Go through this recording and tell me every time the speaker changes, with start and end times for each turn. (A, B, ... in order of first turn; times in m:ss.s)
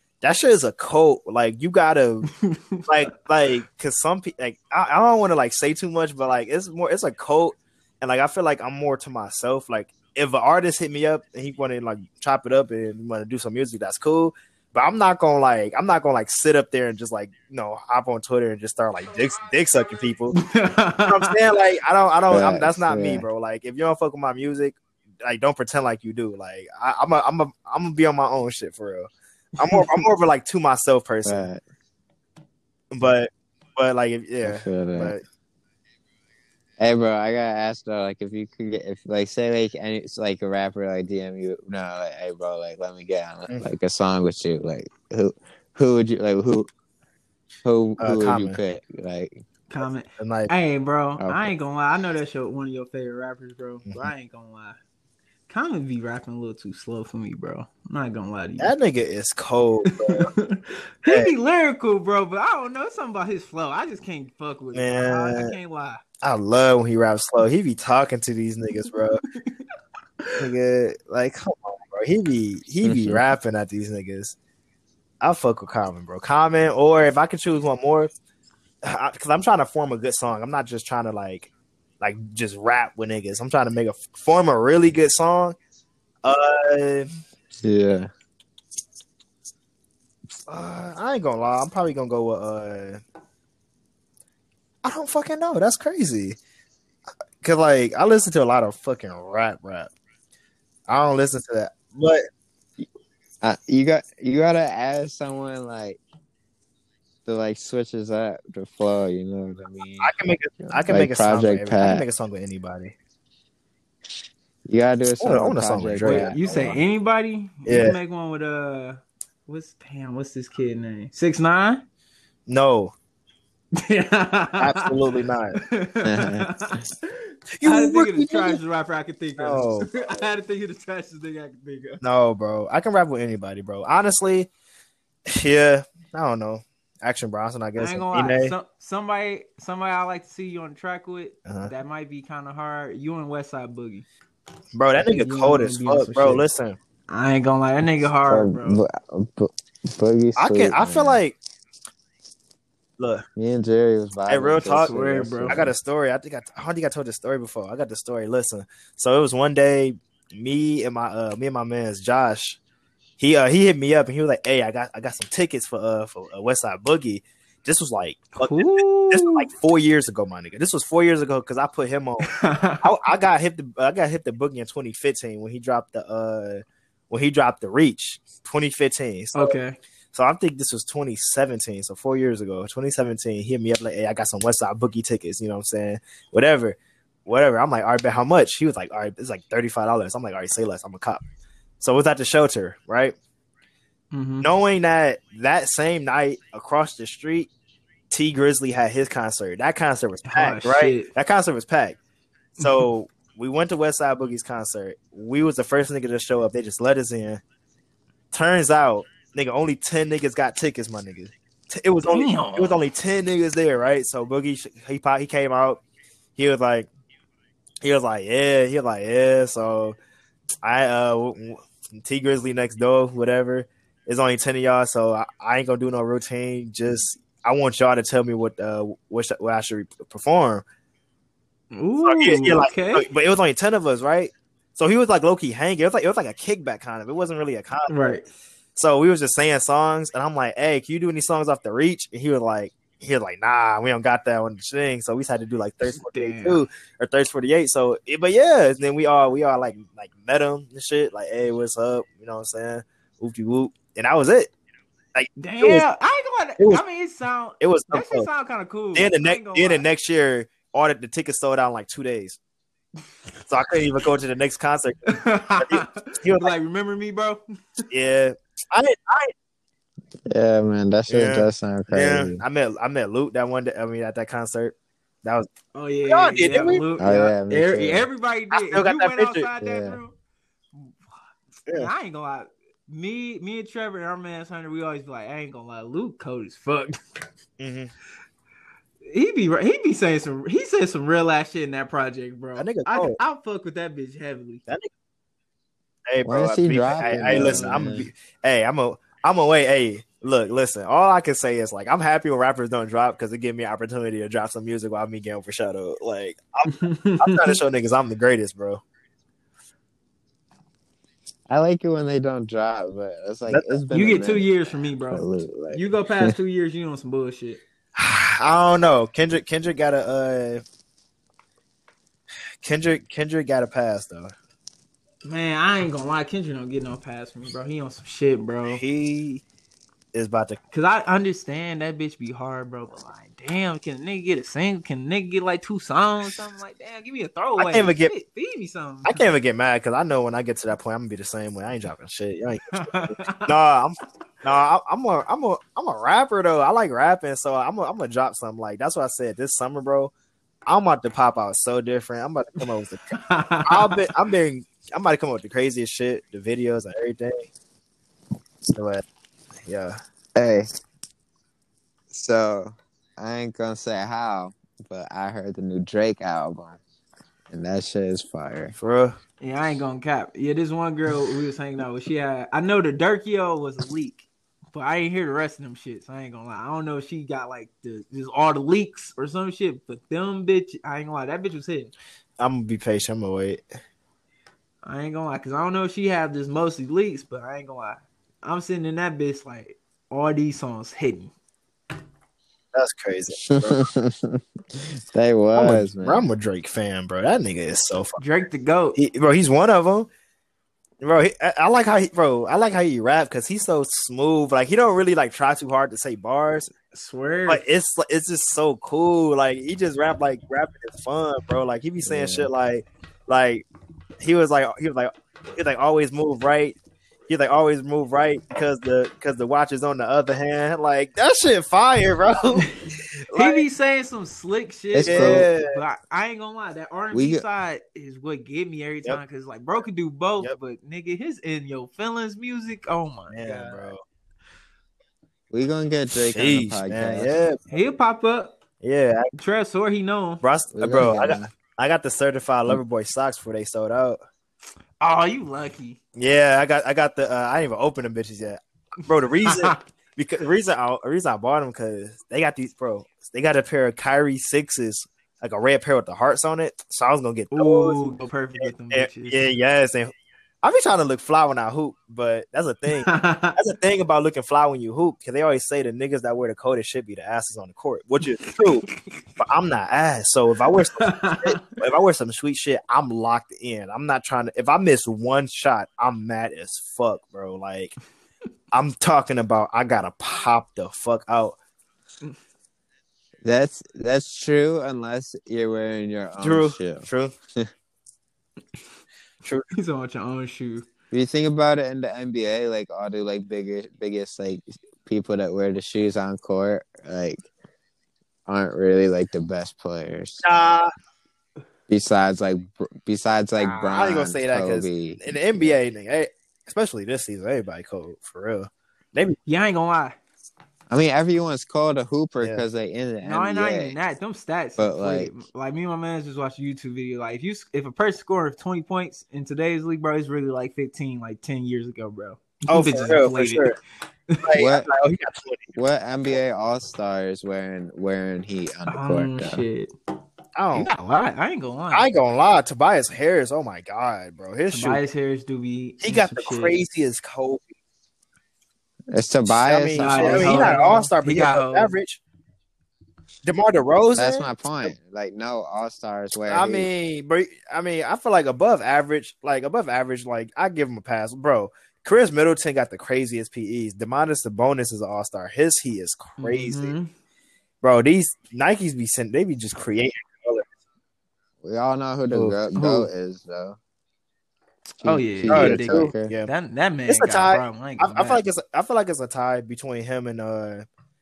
0:00.2-0:02.3 A
0:02.3-0:02.8 B
0:02.9-0:20.4 A
0:20.3-0:21.3 B
0:21.0-0:31.5 A
0:22.3-0:23.2 C
0:31.2-0:31.6 C
0:32.9-0:35.2 A
0:34.4-0:35.1 C
0:36.8-0:46.7 C
0:47.6-0:49.4 C
0:48.0-0:48.6 A
0:49.7-0:54.8 B
0:50.2-0:50.5 A
0:51.2-0:51.5 C
0:55.5-0:58.7 B
0:58.6-1:00.3 A
0:59.9-1:06.0 B
1:01.0-1:01.3 A
1:04.7-1:05.5 A
1:06.2-1:09.2 A
1:10.4-1:14.4 A
1:12.8-1:13.2 C
1:15.2-1:18.1 A
1:18.8-1:21.5 A
1:22.0-1:25.6 A
1:26.2-1:27.1 A
1:27.6-1:28.1 C
1:30.5-1:33.0 A
1:34.8-1:36.4 A
1:37.4-1:39.9 A
1:40.9-1:42.2 A
1:43.4-1:46.0 C
1:47.2-1:52.0 C
1:50.0-1:53.0 A
1:54.6-1:56.4 C
1:55.2-1:56.8 A
1:56.0-2:01.8 B
1:57.6-1:58.0 A
2:02.5-2:02.9 A
2:03.8-2:05.0 B
2:04.6-2:05.6 A
2:05.6-2:12.0 B
2:06.0-2:06.8 C
2:07.6-2:08.6 A
2:09.4-2:09.9 A
2:12.0-2:14.5 A
2:15.3-2:18.5 A
2:17.8-2:24.0 B
2:21.5-2:21.7 A
2:24.7-2:26.8 A
2:25.0-2:26.4 B
2:27.1-2:28.8 B
2:28.3-2:31.2 C
2:30.4-2:31.4 A
2:33.0-2:33.2 A
2:33.4-2:35.7 C
2:34.3-2:34.9 A
2:34.8-2:35.6 B
2:35.5-2:42.6 A
2:43.2-2:59.6 A
2:48.4-2:49.4 B
2:52.2-2:52.9 B
2:59.4-2:59.8 B
3:00.1-3:11.2 A
3:11.8-3:13.2 A
3:14.1-3:14.5 B
3:14.4-3:17.5 A
3:18.1-3:22.0 A
3:20.2-3:21.1 B
3:22.6-3:22.9 B
3:22.6-3:27.4 A
3:28.3-3:35.8 A
3:32.1-3:32.8 B
3:36.4-3:36.9 A
3:37.8-3:40.0 A
3:40.6-3:50.6 A
3:51.7-3:53.0 B
3:52.0-3:58.2 A
3:57.9-3:58.3 B
3:58.8-4:14.5 A
4:05.9-4:06.6 B
4:15.1-4:15.8 A
4:15.4-4:19.8 B
4:17.6-4:18.3 A
4:18.9-4:22.4 A
4:23.5-4:26.5 A
4:25.1-4:27.4 B
4:27.9-4:29.3 A
4:30.3-4:32.4 C
4:31.1-4:35.5 A
4:35.7-4:40.1 B
4:36.1-4:36.8 A
4:37.0-4:38.1 C
4:38.5-4:39.5 A
4:39.6-4:40.0 C
4:41.7-4:41.9 A
4:41.7-4:47.3 B
4:47.6-4:47.9 A
4:49.0-4:54.6 B
4:52.6-4:53.2 A
4:56.1-5:08.8 A
4:56.2-4:58.1 C
4:57.0-4:58.0 B
5:06.7-5:07.6 B
5:11.5-5:16.3 C
5:13.5-5:13.8 A
5:13.9-5:17.6 B
5:18.0-5:20.6 A
5:22.6-5:24.3 A
5:25.2-5:28.8 B
5:28.7-5:29.4 A
5:30.1-5:30.6 A
5:30.7-5:39.2 B
5:37.6-5:38.1 A
5:39.0-5:50.1 A
5:42.7-5:43.5 B
5:50.6-5:57.5 A
5:53.1-5:54.1 B
5:58.7-5:59.0 A
5:59.6-6:00.0 A
6:00.4-6:00.7 C
6:02.1-6:06.8 C
6:07.5-6:08.7 C
6:08.8-6:09.2 A
6:09.4-6:21.9 B
6:22.4-6:23.6 A
6:24.8-6:31.3 B
6:32.7-6:33.8 A
6:33.4-6:36.2 C
6:35.6-6:38.2 A
6:38.2-6:39.0 B
6:39.0-6:40.1 A
6:41.0-6:46.7 A
6:46.9-6:47.6 B
6:47.5-6:53.6 A
6:52.0-6:52.5 C
6:54.2-6:56.8 A
6:57.3-7:02.7 A
7:03.3-7:03.6 A
7:03.3-7:13.9 B
7:04.9-7:05.4 C
7:05.0-7:05.8 A
7:07.1-7:07.4 C
7:13.3-7:14.0 A
7:15.5-7:17.3 C
7:16.1-7:17.6 A
7:17.7-7:18.6 B
7:18.8-7:19.3 A
7:19.3-7:20.4 B
7:20.4-7:24.2 A
7:20.7-7:21.4 C
7:25.0-7:26.0 B
7:26.1-7:38.0 A
7:29.4-7:29.8 B
7:37.5-7:39.5 B
7:38.6-7:40.1 A
7:40.6-7:48.8 A
7:42.9-7:43.6 B
7:48.6-7:49.2 B
7:49.4-7:57.9 A
7:51.0-7:51.8 B
7:58.7-8:01.6 A
8:03.4-8:07.7 C
8:06.4-8:07.3 A
8:09.7-8:10.9 B
8:11.1-8:17.4 C
8:18.5-8:20.4 C
8:20.4-8:20.9 A
8:21.9-8:25.7 C
8:23.8-8:29.4 A
8:29.4-8:30.2 B
8:30.9-8:34.0 C
8:33.2-8:43.7 B
8:34.8-8:35.3 C
8:42.7-8:43.8 A
8:44.3-8:44.6 B
8:44.4-8:45.7 A
8:44.6-8:44.9 C
8:45.7-8:49.6 C
8:48.9-8:49.9 B
8:50.6-8:50.9 A
8:50.7-8:52.0 B
8:51.9-8:55.0 A
8:54.7-8:56.8 B
8:56.0-8:57.7 A
8:59.1-9:00.8 C
8:59.4-9:02.2 A
9:00.0-9:01.9 B
9:03.4-9:04.9 A
9:04.1-9:06.9 C
9:06.5-9:17.0 A
9:16.4-9:17.1 B
9:17.8-9:20.6 A
9:21.6-9:23.8 C
9:22.3-9:23.1 A
9:25.0-9:26.3 C
9:25.0-9:28.4 B
9:25.5-9:26.5 A
9:27.1-9:30.8 A